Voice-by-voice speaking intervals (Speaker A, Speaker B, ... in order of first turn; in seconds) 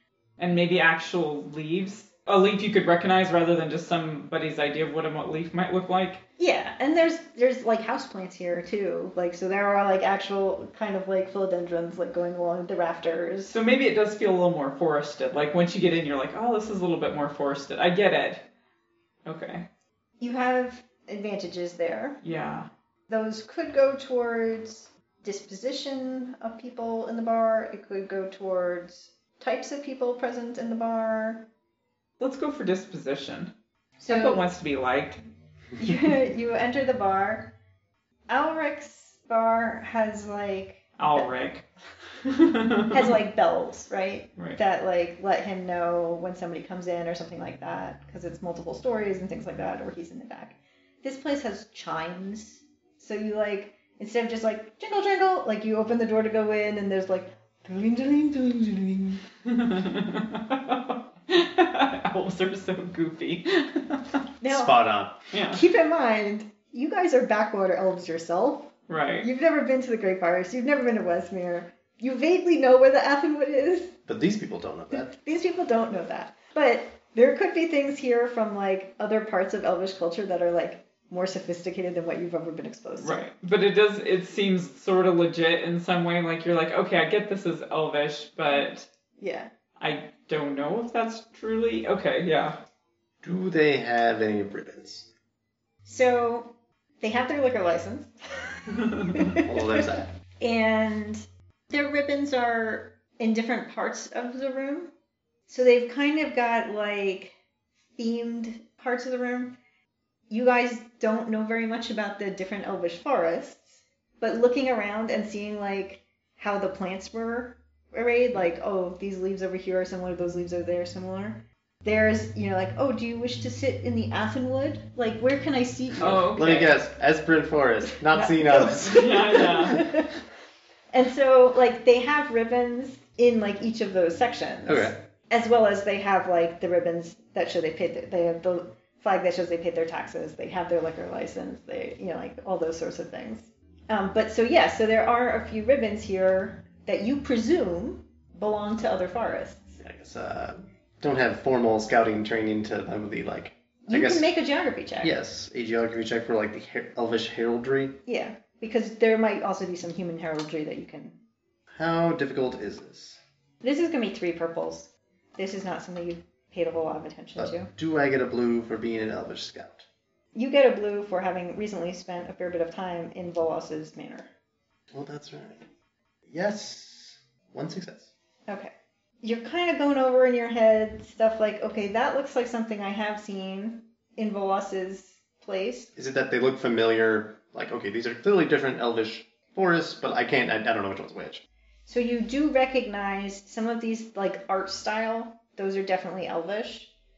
Speaker A: 0.4-6.2, 13.5-18.4, 19.2-19.6, 22.2-22.7, 32.2-33.5, 34.1-35.2, 41.0-41.6, 42.2-43.1, 59.4-64.2, 65.3-65.6, 68.9-69.3, 83.0-88.9, 89.8-92.6, 126.0-126.7, 128.3-129.9
Speaker B: 6.4-13.6, 20.2-22.2, 23.1-31.4, 34.0-34.5, 35.8-37.5, 38.3-41.3, 42.9-59.2, 64.4-64.8, 65.5-74.0, 74.9-83.2, 89.2-89.5, 95.8-99.9, 100.4-104.9, 105.5-107.3, 108.0-109.6, 110.3-126.3, 128.1-130.1, 130.9-149.8, 153.8-155.1, 158.1-161.2, 163.6-167.7, 170.3-174.3, 178.5-185.9, 191.9-196.9
Speaker C: 64.4-65.2, 74.1-75.1, 93.2-95.1, 99.4-100.1, 126.3-129.8, 134.7-134.9, 149.8-154.2, 155.0-158.0, 161.7-163.2, 167.4-169.8, 174.9-175.6, 176.3-178.1, 185.9-191.4